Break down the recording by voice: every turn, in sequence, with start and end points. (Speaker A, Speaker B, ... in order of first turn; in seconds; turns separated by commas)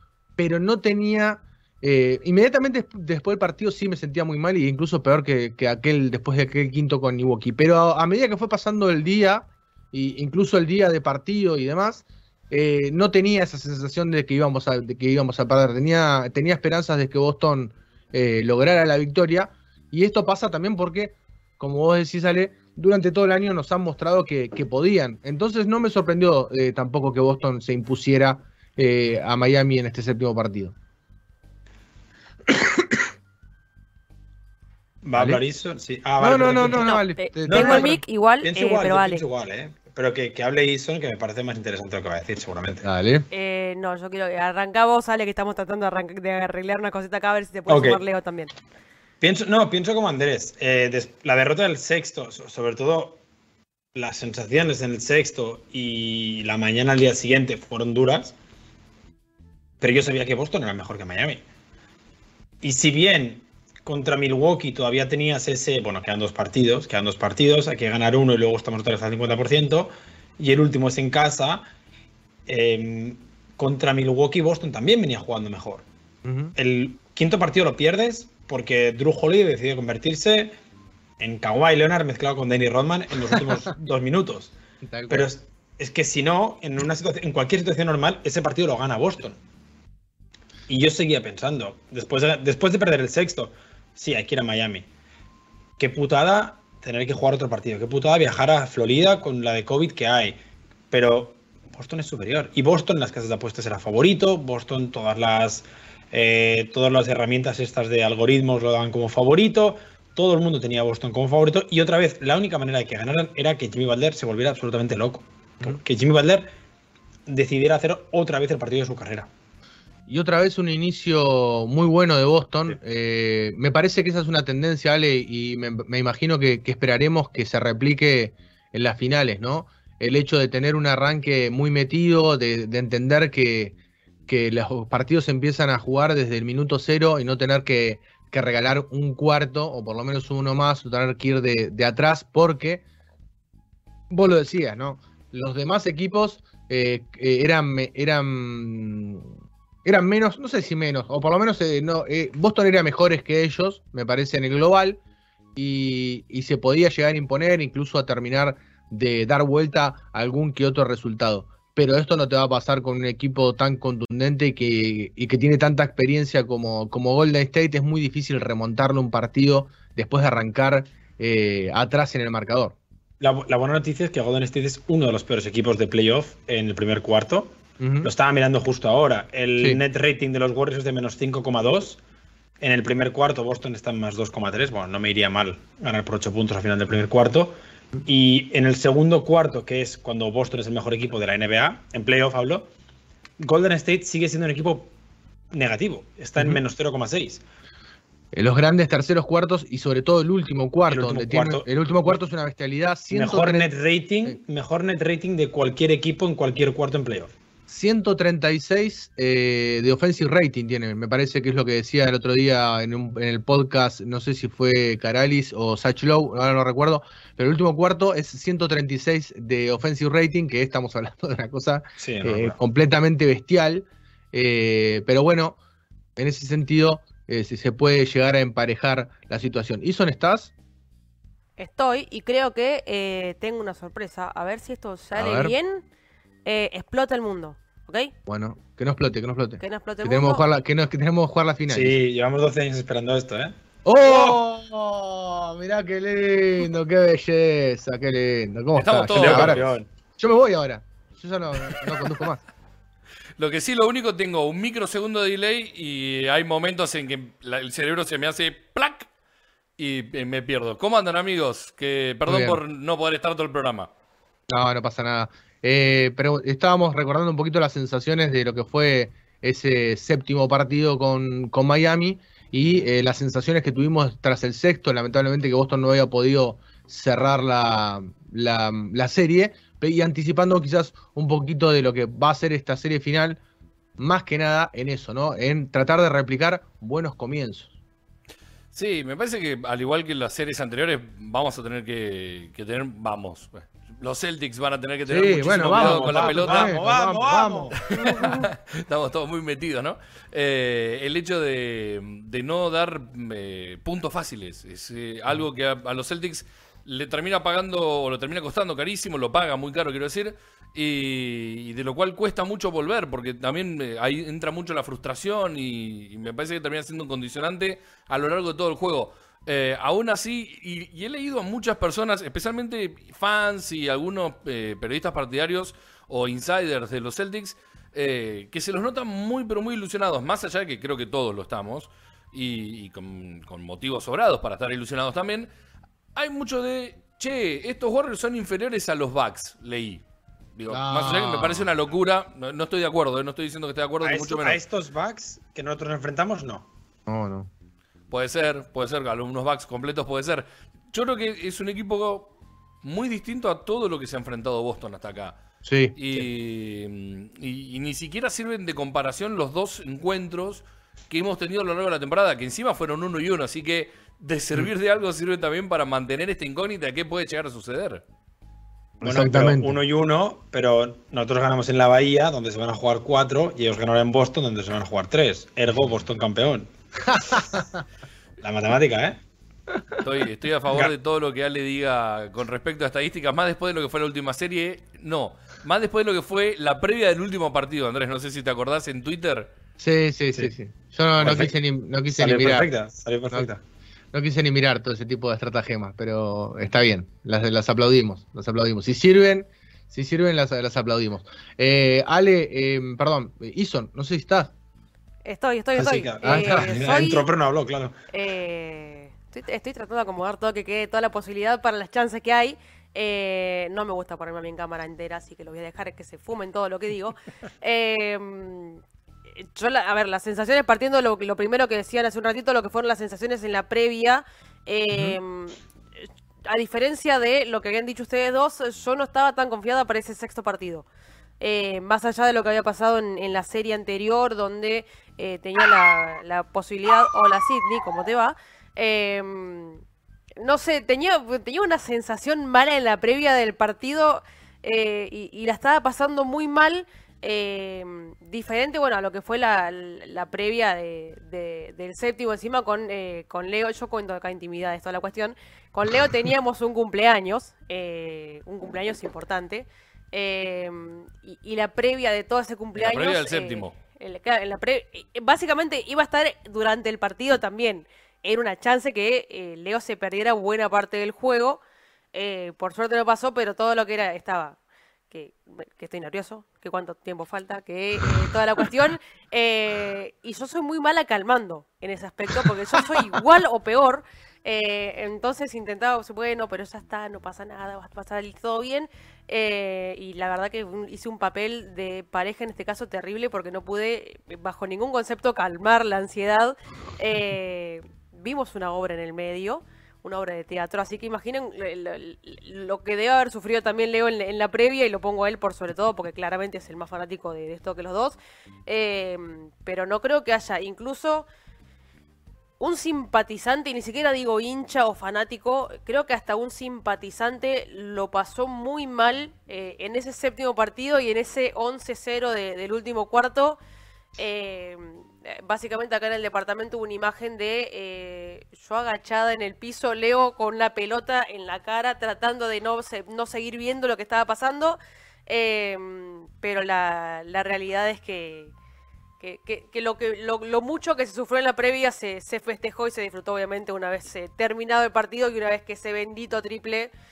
Speaker A: 0.4-30.8, Speaker B: 35.0-42.9, Speaker A: 35.1-35.4, Speaker A: 36.2-38.0, Speaker C: 36.6-39.2, Speaker A: 42.8-43.3, Speaker C: 43.3-48.5, Speaker B: 47.7-48.0, Speaker B: 49.2-53.2, Speaker B: 54.0-58.4, Speaker B: 59.8-61.4, Speaker B: 62.6-71.7, Speaker B: 72.5-75.8, Speaker A: 76.2-76.5, Speaker B: 76.6-80.5, Speaker B: 81.2-84.5, Speaker A: 84.8-85.3, Speaker B: 85.1-89.4, Speaker B: 90.7-94.9, Speaker B: 95.8-100.4, Speaker B: 100.9-116.5, Speaker B: 117.3-119.3, Speaker A: 120.1-133.8, Speaker A: 134.3-142.8, Speaker A: 144.1-149.3, Speaker A: 149.8-155.0, Speaker A: 155.6-172.8, Speaker B: 173.2-182.0, Speaker A: 177.8-178.1, Speaker B: 182.6-192.7, Speaker B: 193.4-194.9, Speaker B: 195.5-197.4, Speaker A: 198.3-203.7, Speaker B: 200.9-202.2, Speaker B: 203.1-207.3, Speaker A: 207.7-225.6, Speaker B: 222.0-222.6, Speaker A: 226.2-230.5, Speaker C: 231.6-235.8, Speaker A: 235.2-235.5, Speaker C: 236.4-238.1, Speaker A: 238.3-242.0, Speaker C: 239.6-240.4, Speaker B: 241.7-244.4, Speaker A: 243.9-249.6, Speaker D: 248.8-249.7, Speaker B: 249.1-249.9, Speaker A: 250.2-252.4, Speaker D: 253.4-259.1, Speaker D: 259.8-263.9, Speaker A: 262.3-262.6, Speaker A: 264.5-283.4, Speaker A: 284.0-287.8, Speaker D: 288.7-296.8, Speaker A: 295.1-298.4, Speaker B: 295.6-298.0, Speaker D: 297.9-335.5, Speaker D: 336.1-340.0, Speaker D: 340.6-344.6, Speaker A: 340.7-341.7, Speaker B: 344.0-346.7, Speaker A: 347.1-347.5, Speaker D: 348.1-355.4, Speaker A: 355.6-356.0, Speaker D: 355.9-368.0, Speaker A: 369.0-369.8, Speaker B: 369.0-377.5, Speaker A: 377.1-377.6, Speaker B: 378.4-379.2, Speaker D: 380.0-389.5, Speaker A: 389.8-392.7, Speaker B: 391.2-391.5, Speaker B: 392.1-393.6, Speaker A: 394.1-404.5, Speaker C: 405.3-407.2, Speaker B: 405.8-407.9, Speaker A: 406.2-406.8, Speaker C: 408.1-418.8, Speaker C: 419.4-425.6, Speaker A: 424.9-425.2, Speaker C: 426.4-430.9, Speaker C: 431.4-439.8, Speaker C: 440.4-471.6, Speaker D: 462.8-463.8, Speaker C: 472.1-474.6, Speaker C: 475.1-511.3, Speaker C: 512.6-523.6, Speaker C: 524.2-538.5, Speaker C: 539.2-546.9